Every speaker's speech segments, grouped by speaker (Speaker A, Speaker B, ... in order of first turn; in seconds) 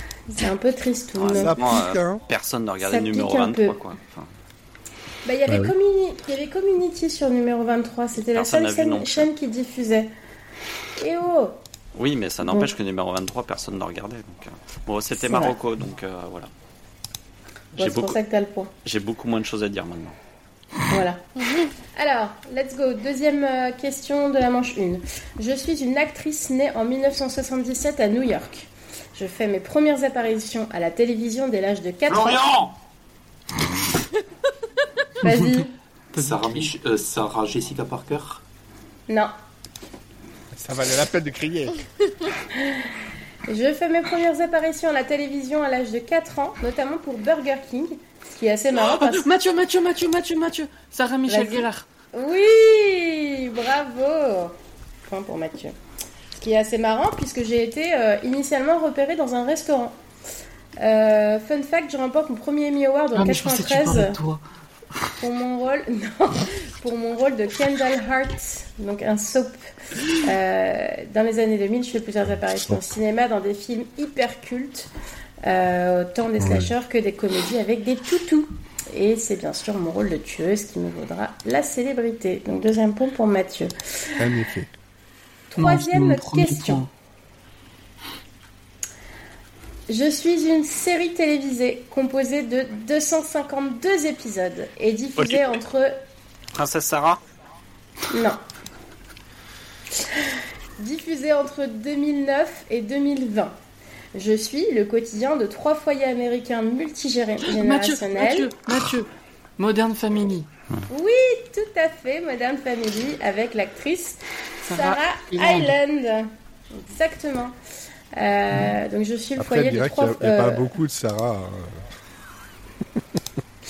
Speaker A: 0.3-1.6, 2.8-3.8, 5.2-10.1, 11.0-11.6, 15.2-15.6, 17.8-18.7, 20.9-21.3, 21.9-32.4, 35.2-35.7, 39.1-39.3, 42.6-42.9, 43.5-49.3, 51.3-54.5, 55.1-55.8, 56.4-60.0, 60.8-64.2, 65.2-74.9, 75.4-84.1, 85.5-86.8, 89.9-96.0, 98.1-98.4, 100.1-103.5, 104.2-108.5, 110.9-117.6, 118.1-120.7
Speaker B: 1.2-4.3, 8.3-9.3, 11.9-16.5, 17.8-18.2, 18.8-20.1, 95.2-95.6, 96.5-97.2
Speaker C: 1.3-2.2, 5.5-5.8, 40.5-41.8, 72.7-72.9, 76.4-76.7, 84.2-84.7, 119.4-121.9
Speaker D: 32.1-32.8, 36.1-38.4
Speaker E: 35.2-36.7, 48.8-51.9, 63.1-64.4, 85.6-86.9, 107.5-110.5, 114.6-115.8